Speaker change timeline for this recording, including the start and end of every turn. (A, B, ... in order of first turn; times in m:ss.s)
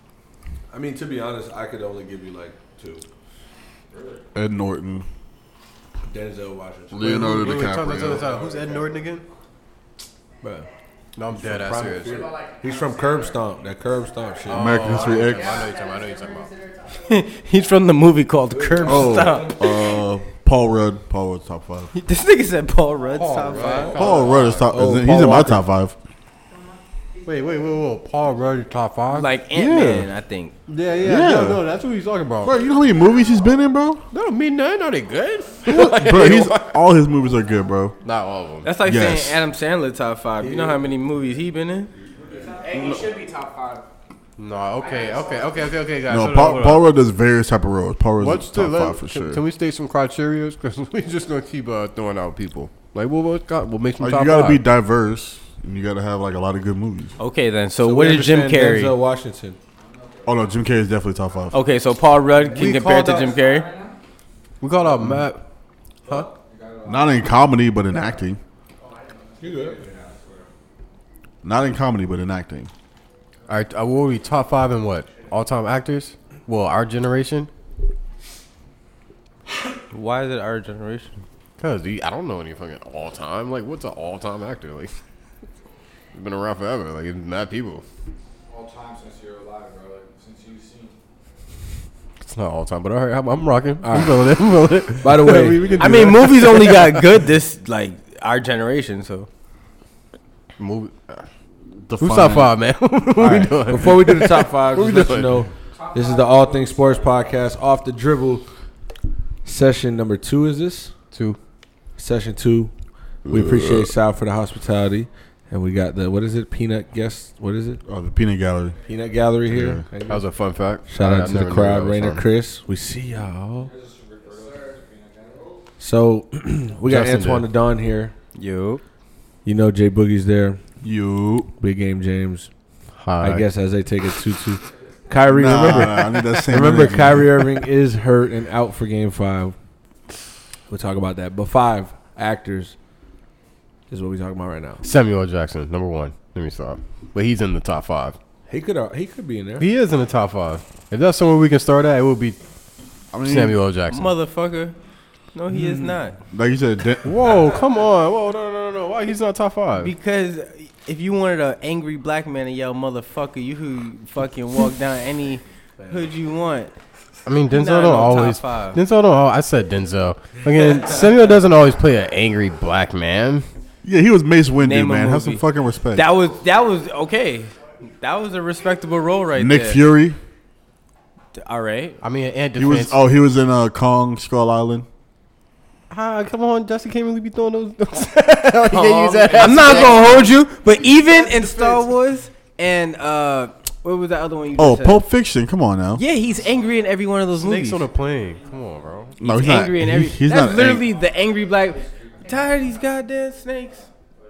0:00.7-0:03.0 A
0:04.3-0:05.0 B
0:06.1-0:07.6 A
0:06.9-0:08.4 B
0:07.2-0:09.2 C
0:10.4-0:10.7 A
0:11.2-0:12.2 C
0:11.3-0:15.0 A
0:14.5-0:15.7 B
0:14.5-0:16.5 C
0:17.0-0:19.9 D
0:18.6-0:19.5 A
0:18.8-0:21.9 B
0:21.9-0:24.2 D
0:23.2-0:24.7 C
0:24.0-0:26.0 B
0:24.7-0:25.7 A
0:27.2-0:29.3 C
0:29.1-0:30.6 D
0:29.5-0:30.1 B
0:30.7-0:32.6 C
0:31.0-0:31.7 B
0:32.4-0:34.0 B
0:34.1-0:36.8 C
0:35.6-0:38.0 B
0:38.0-0:38.7 C
0:38.6-0:41.9 D
0:38.8-0:39.4 B
0:40.4-0:40.8 C
0:42.3-0:43.9 E
0:42.7-0:43.2 B
0:44.4-0:46.9 C
0:46.0-0:49.4 B
0:48.2-0:54.6 C
0:54.0-0:57.2 B
0:57.2-0:59.0 D
0:57.8-0:59.6 A
0:59.8-1:00.4 E
1:00.3-1:01.6 B
1:01.5-1:03.7 D
1:02.5-1:03.3 C
1:02.6-1:04.0 E
1:04.6-1:05.4 C
1:05.0-1:05.3 B
1:06.1-1:07.2 E
1:06.8-1:08.4 B
1:09.4-1:09.8 A
1:09.4-1:10.5 E
1:11.4-1:12.7 B
1:13.5-1:17.5 C
1:19.9-1:21.2 D
1:21.6-1:25.0 C
1:26.1-1:27.8 C
1:28.5-1:31.0 E
1:32.2-1:37.2 C
1:33.8-1:34.4 A
1:35.0-1:35.8 A
1:35.8-1:39.3 D
1:40.6-1:41.3 C
1:41.9-1:42.6 B
1:42.0-1:45.5 C
1:43.2-1:43.5 B
1:43.2-1:48.5 A
1:49.4-1:50.9 A
1:51.1-1:51.4 C
1:52.0-1:52.7 A
1:53.2-1:53.9 B
1:53.3-1:57.8 A
1:57.8-1:58.8 B
1:58.9-2:00.3 A
1:59.5-1:59.9 B
2:00.1-2:02.2 C
2:00.8-2:03.7 A
2:03.6-2:05.6 E
2:05.8-2:08.1 A
2:06.9-2:07.5 C
2:08.3-2:08.8 D
2:09.4-2:10.6 A
2:10.8-2:11.5 B
2:11.6-2:12.5 A
2:12.9-2:13.4 C
2:13.2-2:19.6 A
2:15.2-2:17.6 B
2:20.7-2:22.8 A
2:23.9-2:24.8 A
2:24.8-2:28.2 C
2:28.5-2:29.7 A
2:29.6-2:32.4 C
2:33.1-2:33.6 B
2:33.2-2:34.2 C
2:33.9-2:34.8 D
2:35.3-2:36.2 D
2:36.3-2:37.2 B
2:37.0-2:39.9 C
2:39.8-2:46.7 D
2:47.2-2:53.5 C
2:47.5-2:48.8 D
2:53.8-2:56.1 B
2:54.6-2:59.8 D
2:59.4-3:00.2 B
3:01.3-3:02.0 D
3:02.0-3:03.0 C
3:02.6-3:04.8 B
3:05.9-3:12.0 C
3:08.7-3:10.2 A
3:09.3-3:15.0 D
3:14.6-3:16.0 B
3:15.9-3:17.9 D
3:17.3-3:19.2 C
3:19.2-3:20.8 B
3:19.2-3:23.9 D